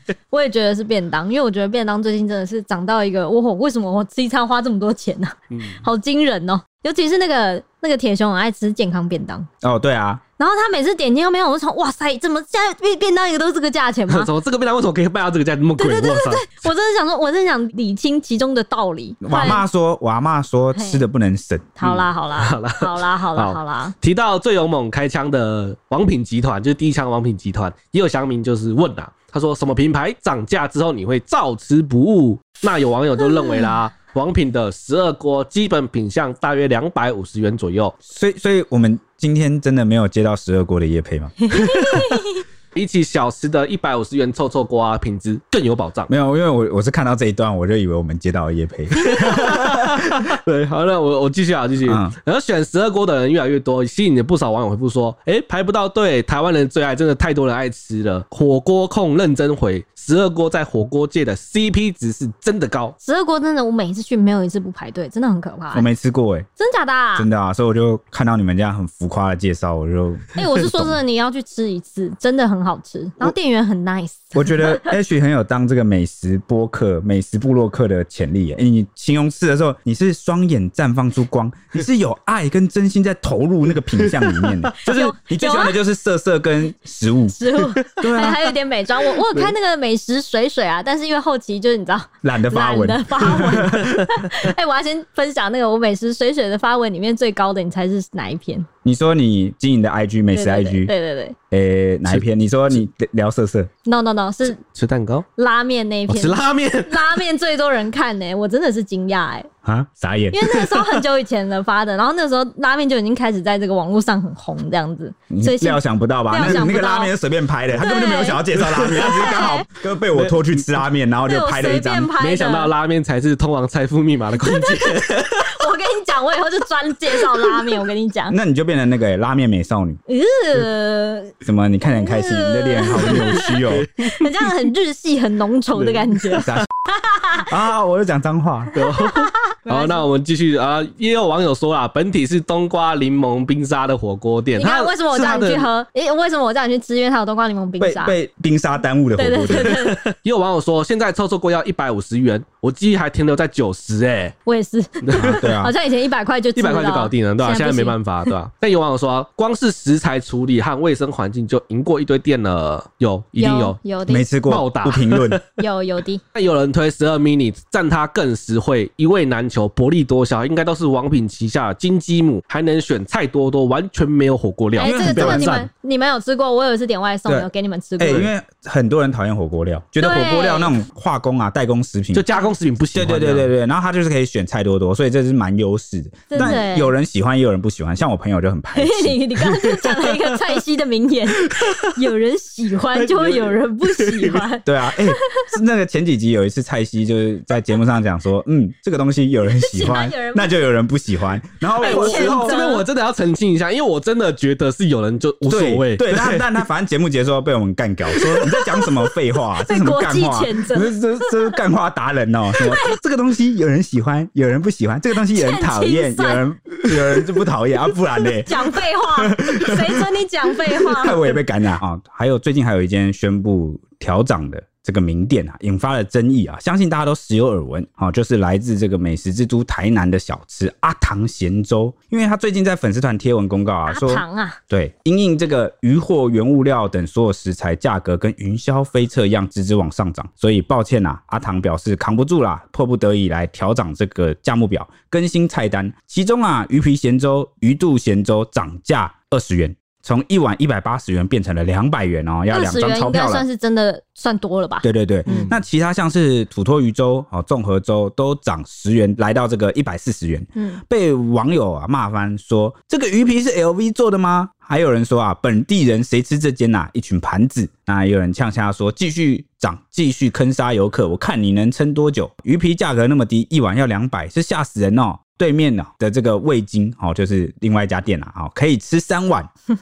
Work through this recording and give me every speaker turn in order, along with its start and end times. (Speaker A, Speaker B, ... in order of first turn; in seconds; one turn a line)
Speaker A: 0.3-9.5
Speaker B: 5.5-5.8
Speaker C: 9.6-10.2
Speaker A: 10.4-14.3
Speaker B: 14.1-16.4
Speaker A: 15.8-19.6
Speaker C: 19.2-21.7
Speaker A: 20.7-21.0
Speaker A: 21.8-23.9
Speaker B: 21.8-38.0
Speaker A: 33.4-33.7
Speaker C: 38.0-41.4
Speaker A: 41.5-42.4
Speaker B: 41.5-46.1
Speaker C: 46.1-50.3
Speaker B: 49.0-63.0
Speaker C: 51.9-52.1
Speaker A: 63.0-65.9
Speaker C: 65.7-66.5
Speaker A: 66.6-67.3
Speaker C: 67.2-71.0
Speaker A: 70.3-75.0
Speaker C: 74.3-87.4
Speaker B: 84.1-84.5
Speaker A: 84.8-85.8
Speaker A: 87.3-98.7
Speaker C: 88.0-88.5
Speaker B: 89.2-89.5
Speaker C: 92.2-94.1
Speaker C: 98.8-100.9
Speaker A: 100.3-101.3
Speaker C: 101.5-103.7
Speaker A: 103.8-104.6
Speaker B: 104.6-105.3
Speaker A: 105.4-109.5
Speaker B: 106.1-107.2
Speaker C: 109.6-110.5
Speaker A: 110.3-117.1
Speaker B: 110.7-111.0
Speaker C: 115.3-122.1
Speaker A: 117.8-119.7
Speaker B: 118.6-119.4
Speaker A: 121.2-122.7
Speaker B: 122.2-125.5
Speaker A: 124.4-128.3
Speaker C: 128.3-130.0
Speaker A: 130.1-131.3
Speaker C: 131.4-133.9
Speaker A: 131.9-137.5
Speaker B: 133.0-134.5
Speaker B: 135.8-136.5
Speaker C: 136.4-136.7
Speaker C: 137.4-138.7
Speaker B: 138.7-145.7
Speaker A: 138.8-140.0
Speaker A: 144.6-148.1
Speaker C: 147.8-149.8
Speaker A: 149.2-150.0
Speaker B: 149.6-154.3
Speaker A: 154.4-158.0
Speaker B: 155.0-155.4
Speaker C: 155.1-155.7
Speaker B: 156.5-163.8
Speaker A: 163.3-164.3
Speaker C: 164.1-165.4
Speaker B: 164.5-165.4
Speaker A: 165.6-166.2
Speaker B: 166.3-175.7
Speaker A: 174.8-178.3
Speaker C: 174.8-175.6
Speaker C: 178.0-182.2
Speaker A: 180.0-180.7
Speaker B: 182.1-183.5
Speaker C: 182.9-189.2
Speaker A: 186.3-186.9
Speaker B: 186.3-186.6
Speaker A: 188.7-195.5
Speaker B: 189.6-190.6
Speaker B: 191.4-191.9
Speaker B: 192.9-194.4
Speaker C: 194.6-202.6
Speaker A: 199.5-200.5
Speaker A: 201.8-202.8
Speaker B: 201.8-206.5
Speaker C: 205.4-220.1
Speaker A: 209.6-211.6
Speaker A: 212.5-213.0
Speaker A: 215.2-216.4
Speaker A: 218.3-221.4
Speaker C: 220.7-253.4
Speaker A: 233.9-234.6
Speaker A: 252.5-255.5
Speaker C: 254.8-279.5
Speaker B: 255.3-255.6
Speaker A: 260.6-260.8